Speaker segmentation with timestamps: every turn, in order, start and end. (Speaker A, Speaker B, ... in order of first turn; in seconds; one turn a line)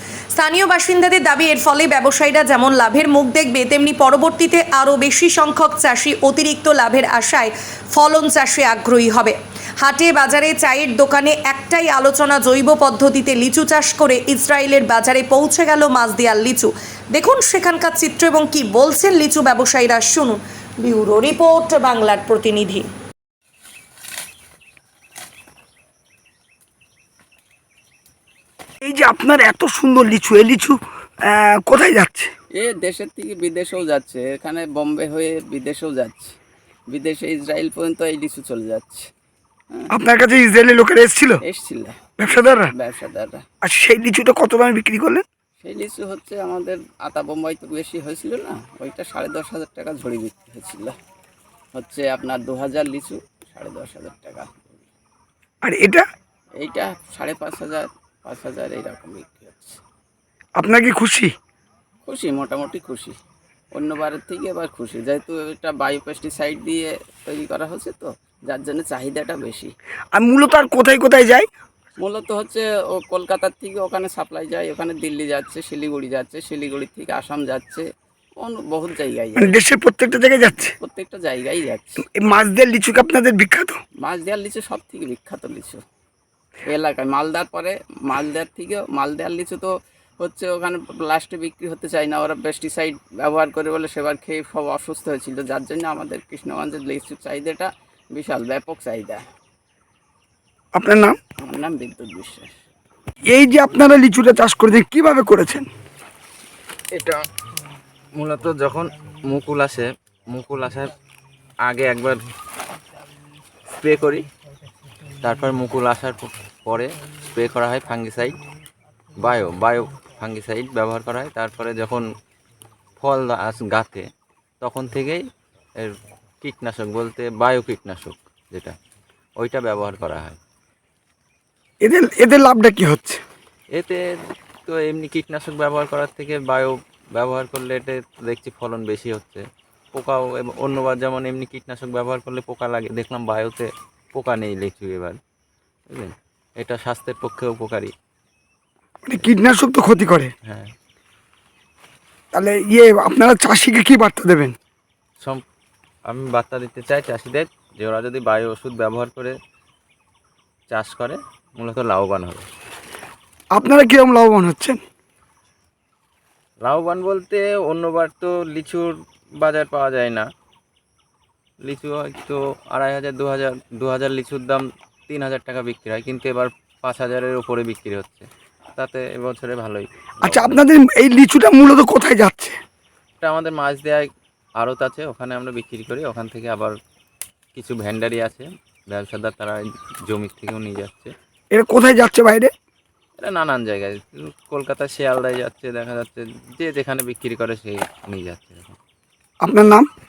Speaker A: 0.3-22.9
Speaker B: 28.8-32.3
Speaker C: 32.5-36.3
Speaker C: 36.9-39.1
Speaker B: 39.9-41.4
Speaker C: 41.4-43.4
Speaker B: 42.2-42.7
Speaker B: 43.6-45.2
Speaker C: 45.6-50.9
Speaker C: 51.7-54.9
Speaker B: 55.6-56.0
Speaker C: 56.6-59.8
Speaker B: 60.6-61.3
Speaker C: 62.0-63.1
Speaker C: 63.7-69.7
Speaker B: 70.1-71.5
Speaker C: 72.0-77.8
Speaker C: 78.4-79.6
Speaker B: 79.4-80.7
Speaker C: 80.8-82.0
Speaker B: 82.0-83.8
Speaker C: 84.0-85.8
Speaker C: 86.7-99.2
Speaker B: 100.7-101.2
Speaker C: 101.4-102.5
Speaker B: 103.3-105.7
Speaker D: 106.9-107.2
Speaker D: 108.1-110.9
Speaker D: 111.6-112.2
Speaker D: 113.7-114.3
Speaker D: 115.2-118.4
Speaker D: 119.2-122.0
Speaker D: 123.0-124.0
Speaker D: 124.6-125.2
Speaker D: 125.8-128.7
Speaker D: 129.4-130.4
Speaker B: 131.8-133.2
Speaker D: 133.7-134.0
Speaker D: 134.7-139.4
Speaker D: 139.9-145.2
Speaker D: 145.9-147.9
Speaker B: 149.0-150.3
Speaker D: 150.4-150.7
Speaker B: 152.3-154.5
Speaker D: 156.1-159.3
Speaker D: 160.7-162.4
Speaker B: 163.5-164.8
Speaker D: 166.6-170.2
Speaker D: 171.7-180.6
Speaker B: 180.2-182.6
Speaker D: 183.2-186.7
Speaker D: 187.5-191.1
Speaker B: 191.5-192.5
Speaker D: 193.2-198.8
Speaker B: 199.4-199.9